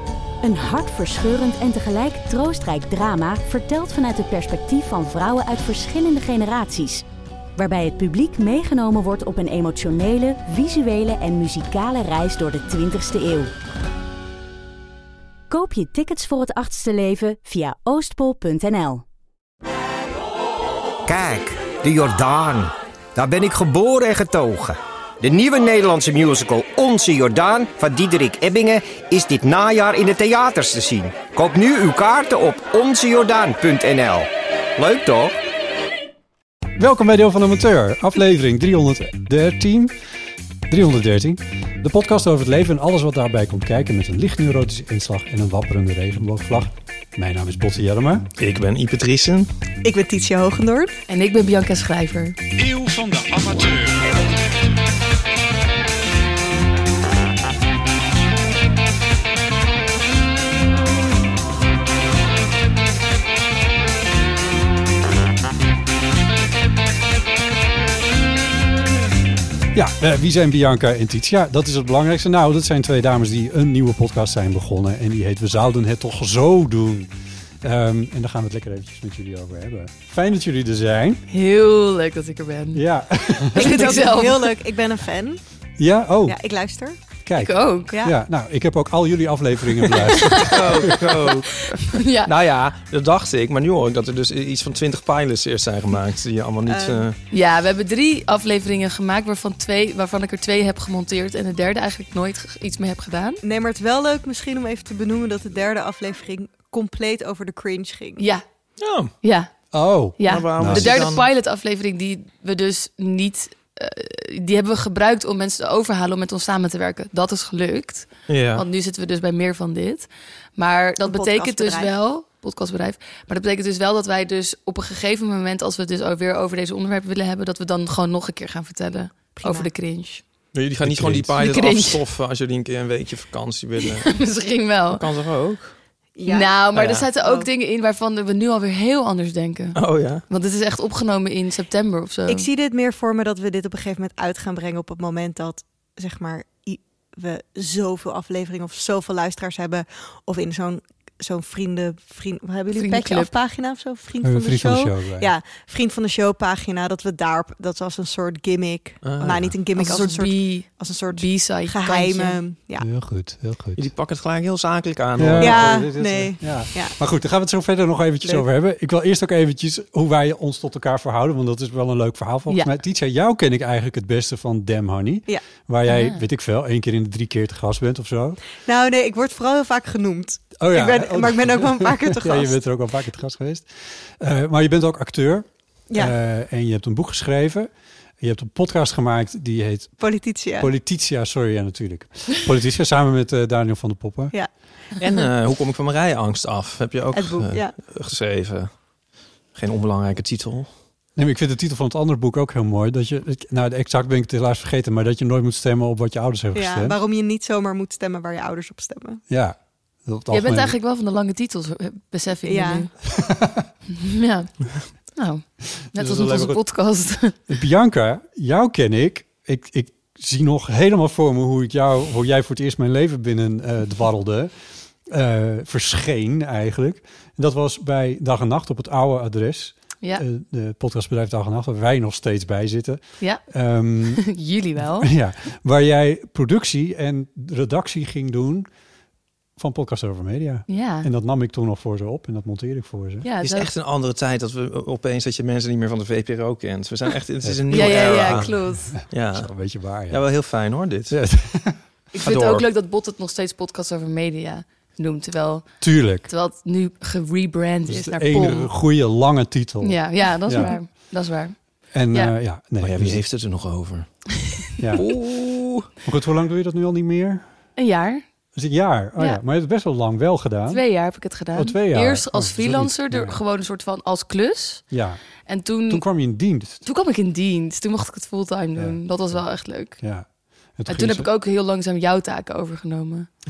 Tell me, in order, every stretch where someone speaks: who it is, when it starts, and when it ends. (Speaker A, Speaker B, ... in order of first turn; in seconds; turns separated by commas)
Speaker A: 0.4-7.0, Speaker A: 7.6-13.5, Speaker A: 15.5-19.0, Speaker B: 21.1-35.4, Speaker C: 36.8-39.9, Speaker C: 40.7-48.3, Speaker D: 48.4-49.5, Speaker E: 49.8-51.0, Speaker F: 51.1-52.4, Speaker C: 52.6-53.9, Speaker C: 69.7-77.1, Speaker C: 77.6-81.2, Speaker F: 81.3-82.8, Speaker C: 82.7-83.9, Speaker F: 83.5-84.6, Speaker E: 83.5-85.4, Speaker C: 85.8-86.4, Speaker E: 86.2-87.0, Speaker C: 87.2-91.2, Speaker F: 87.4-88.0, Speaker F: 90.1-90.7, Speaker D: 90.5-97.2, Speaker F: 91.5-92.3, Speaker E: 96.7-97.1, Speaker F: 97.3-103.4, Speaker E: 103.4-108.2, Speaker F: 108.2-108.4, Speaker D: 108.8-109.1, Speaker F: 109.2-109.5, Speaker C: 109.7-111.0, Speaker F: 110.2-130.2, Speaker D: 110.3-111.3, Speaker D: 118.3-118.6, Speaker E: 121.0-121.9, Speaker E: 129.4-129.7, Speaker D: 130.5-134.1, Speaker C: 130.8-131.3, Speaker F: 131.4-132.0, Speaker F: 134.0-135.0, Speaker D: 134.9-135.8, Speaker E: 136.2-136.6, Speaker F: 136.3-142.5, Speaker D: 136.7-137.1, Speaker E: 137.2-137.5, Speaker D: 139.8-140.2, Speaker E: 142.3-162.9, Speaker F: 152.7-153.3, Speaker C: 154.2-155.3, Speaker D: 159.0-159.5, Speaker F: 159.8-162.4, Speaker C: 162.8-163.9, Speaker D: 163.8-165.9, Speaker C: 165.2-178.4, Speaker E: 165.4-167.0, Speaker F: 175.9-176.2, Speaker E: 178.7-182.6, Speaker C: 180.6-190.0, Speaker E: 190.0-190.7, Speaker C: 190.6-194.3, Speaker D: 195.0-198.7, Speaker E: 197.1-197.7, Speaker D: 199.5-200.7, Speaker C: 201.2-207.0, Speaker E: 206.6-209.2, Speaker C: 209.3-210.8, Speaker F: 210.3-212.9, Speaker E: 212.5-212.9, Speaker C: 213.2-213.7, Speaker F: 213.9-217.4, Speaker C: 215.9-216.6, Speaker C: 217.5-224.5, Speaker C: 225.1-234.2, Speaker F: 234.0-235.1, Speaker C: 235.0-238.7, Speaker C: 239.6-243.3, Speaker F: 240.7-241.1, Speaker F: 243.2-243.7, Speaker D: 243.4-251.2, Speaker C: 247.4-250.5, Speaker F: 247.7-248.9, Speaker C: 251.1-251.8, Speaker F: 252.2-258.7, Speaker D: 252.2-252.7, Speaker C: 255.8-256.3, Speaker C: 257.9-260.8, Speaker F: 259.8-261.6, Speaker C: 261.9-263.2, Speaker D: 262.8-264.2, Speaker C: 264.8-265.2, Speaker D: 264.9-265.9, Speaker C: 266.0-267.4, Speaker F: 267.8-268.2, Speaker C: 268.6-270.8, Speaker F: 270.7-274.8, Speaker C: 271.5-273.4, Speaker C: 274.9-275.2, Speaker F: 275.5-276.1, Speaker C: 275.9-276.8, Speaker F: 276.8-280.0, Speaker C: 278.8-279.5, Speaker C: 280.0-281.3, Speaker F: 280.9-283.3